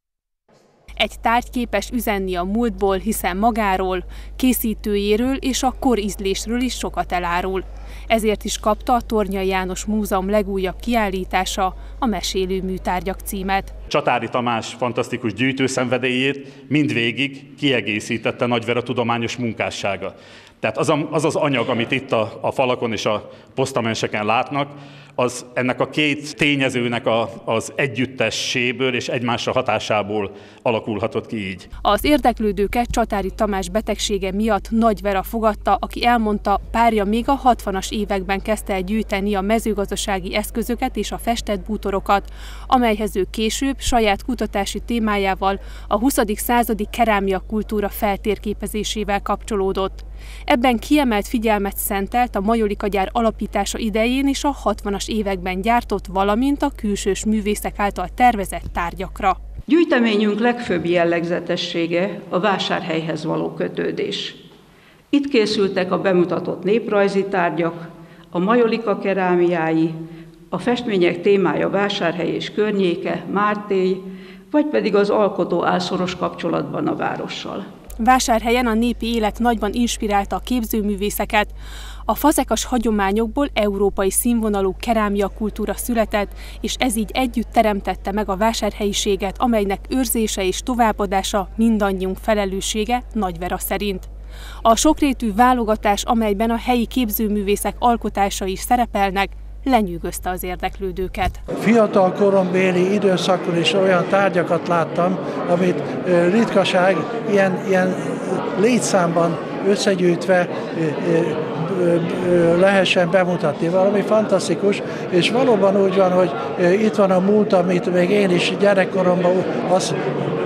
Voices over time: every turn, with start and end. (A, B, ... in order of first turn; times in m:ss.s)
0:01.0-0:13.7 A
0:13.9-0:31.6 B
0:31.8-0:59.4 A
0:59.7-1:04.3 C
1:05.1-1:09.9 C
1:10.5-1:14.0 C
1:14.5-1:17.6 C
1:18.0-1:21.5 A
1:22.1-1:34.1 A
1:34.6-1:41.4 A
1:41.6-1:48.0 D
1:48.6-1:59.9 D